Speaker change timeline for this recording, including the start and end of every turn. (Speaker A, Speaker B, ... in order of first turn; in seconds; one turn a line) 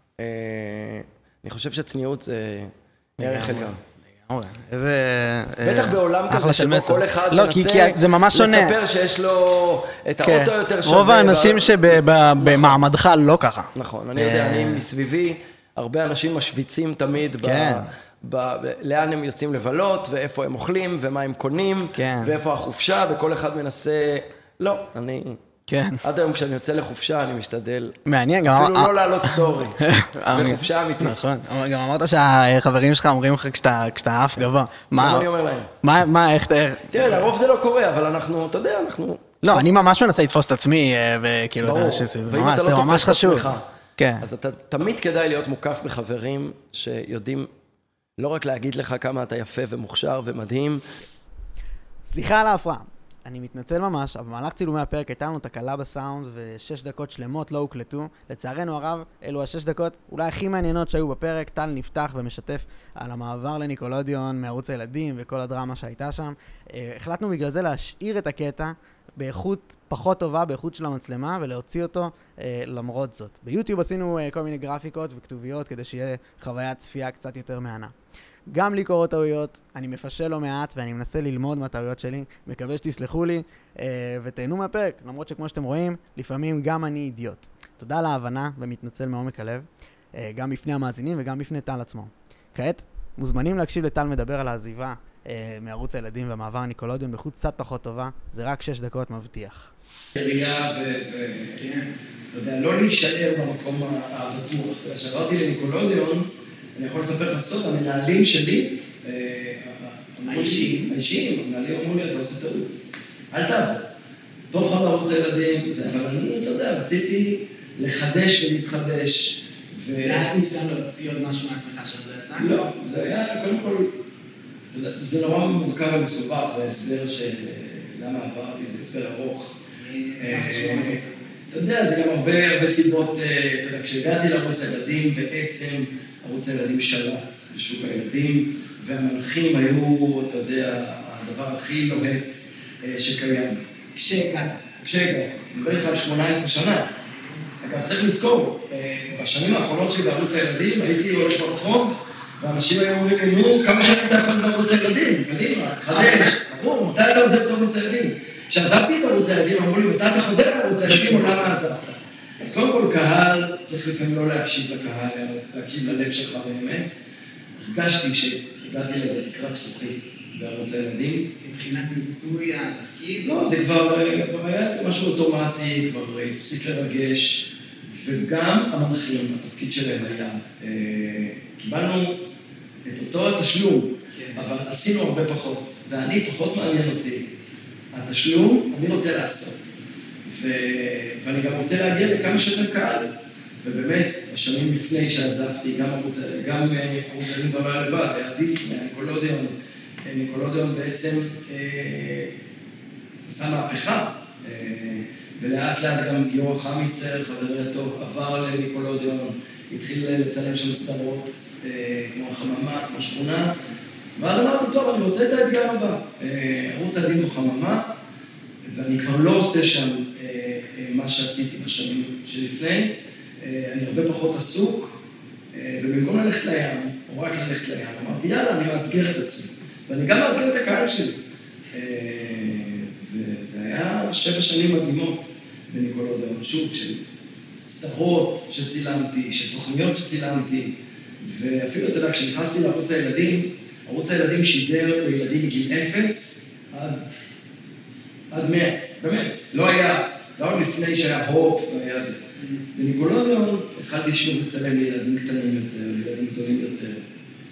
Speaker A: 0.2-3.8
Speaker B: 3.2-8.7
Speaker A: 5.6-12.8
Speaker B: 10.2-14.8
Speaker A: 13.7-25.4
Speaker B: 17.4-17.9
Speaker B: 22.0-22.3
Speaker B: 25.7-26.0
Speaker A: 26.0-31.2
Speaker B: 28.1-35.3
Speaker A: 35.0-35.7
Speaker B: 35.8-37.2
Speaker A: 36.9-39.4
Speaker B: 39.4-44.2
Speaker A: 41.6-43.6
Speaker A: 44.2-47.5
Speaker A: 48.2-50.9
Speaker B: 52.0-77.9
Speaker B: 78.5-99.7
Speaker A: 100.2-113.8
Speaker B: 110.2-110.7
Speaker A: 114.5-120.3
Speaker B: 120.0-122.7
Speaker A: 122.4-123.9
Speaker A: 124.7-129.6
Speaker B: 129.8-131.1
Speaker A: 130.2-143.7
Speaker B: 143.9-144.6
Speaker A: 144.8-146.9
Speaker B: 147.0-147.6
Speaker A: 147.6-167.0
Speaker B: 155.9-156.3
Speaker A: 167.6-171.3
Speaker B: 171.4-173.4
Speaker A: 173.2-182.2
Speaker A: 182.8-187.3
Speaker B: 184.1-184.5
Speaker A: 187.9-199.5
Speaker A: 200.0-202.3
Speaker A: 203.3-213.5
Speaker A: 214.2-217.9
Speaker A: 218.7-225.0
Speaker A: 225.5-231.2
Speaker A: 231.7-237.0
Speaker A: 237.7-247.2
Speaker A: 248.3-257.1